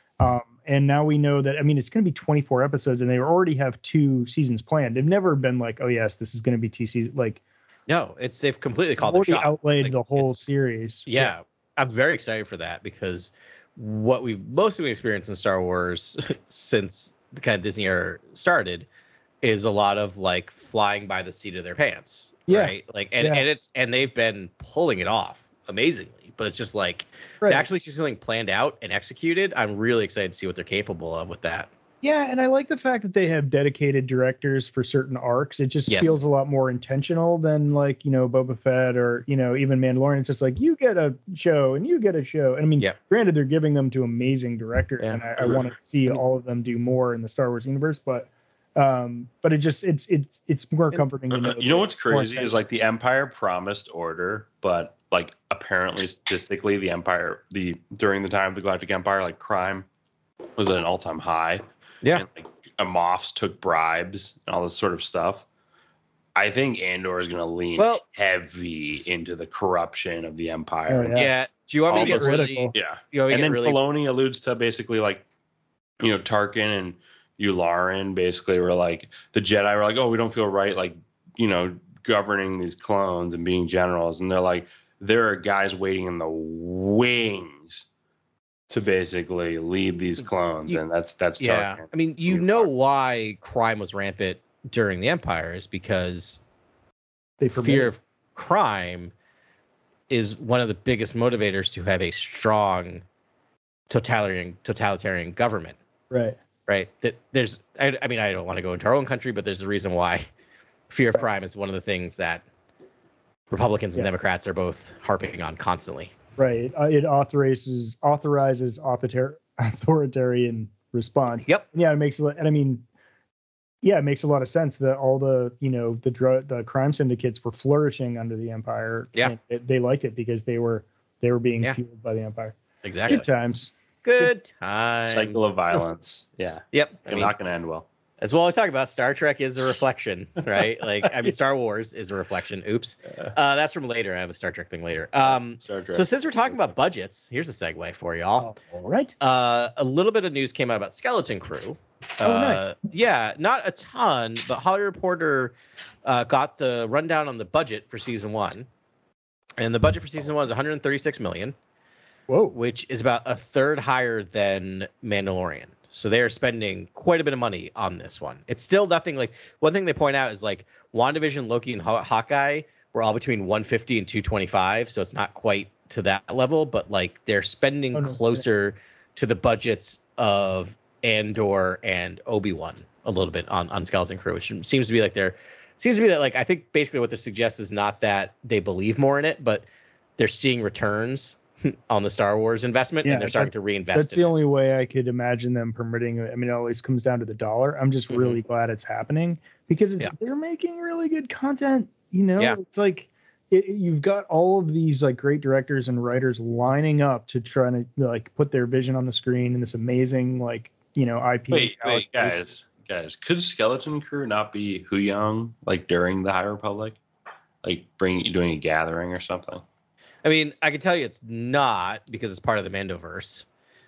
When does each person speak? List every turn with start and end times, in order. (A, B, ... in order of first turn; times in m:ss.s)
0:00.2-0:07.4 A
0:07.9-0:10.4 B
0:09.0-0:11.3 A
0:11.1-0:18.9 B
0:19.4-0:31.7 B
0:22.5-0:23.4 A
0:27.4-0:27.7 A
0:32.0-0:52.5 A
0:35.9-0:36.2 B
0:45.0-0:45.6 C
0:51.3-0:59.8 C
1:00.6-1:05.4 C
1:06.3-1:11.2 C
1:07.8-1:08.0 B
1:10.9-1:11.3 A
1:11.1-1:13.8 B
1:11.9-1:15.2 C
1:11.9-1:12.7 A
1:16.0-1:27.8 C
1:28.7-1:32.7 C
1:31.4-1:36.4 B
1:37.4-1:37.9 A
1:37.5-1:39.1 B
1:40.1-1:43.0 B
1:43.9-1:45.8 B
1:46.1-1:46.4 A
1:46.7-1:50.2 B
1:50.9-1:52.4 B
1:53.5-1:56.1 B
1:56.4-2:02.8 A
2:03.8-2:13.7 A
2:12.8-2:13.2 B
2:14.0-2:15.6 B
2:15.1-2:17.8 C
2:16.7-2:17.3 B
2:18.2-2:28.5 B
2:25.2-2:26.7 C
2:28.4-2:29.1 A
2:29.2-2:35.5 B
2:32.2-2:32.6 A
2:36.0-2:38.7 B
2:39.6-2:41.5 B
2:42.3-2:42.6 A
2:42.5-3:09.6 B
2:57.9-2:58.4 A
3:10.2-3:14.3 B
3:13.0-3:32.3 A
3:18.1-3:18.4 B
3:31.5-3:37.0 C
3:37.6-3:39.6 C
3:40.2-3:43.4 B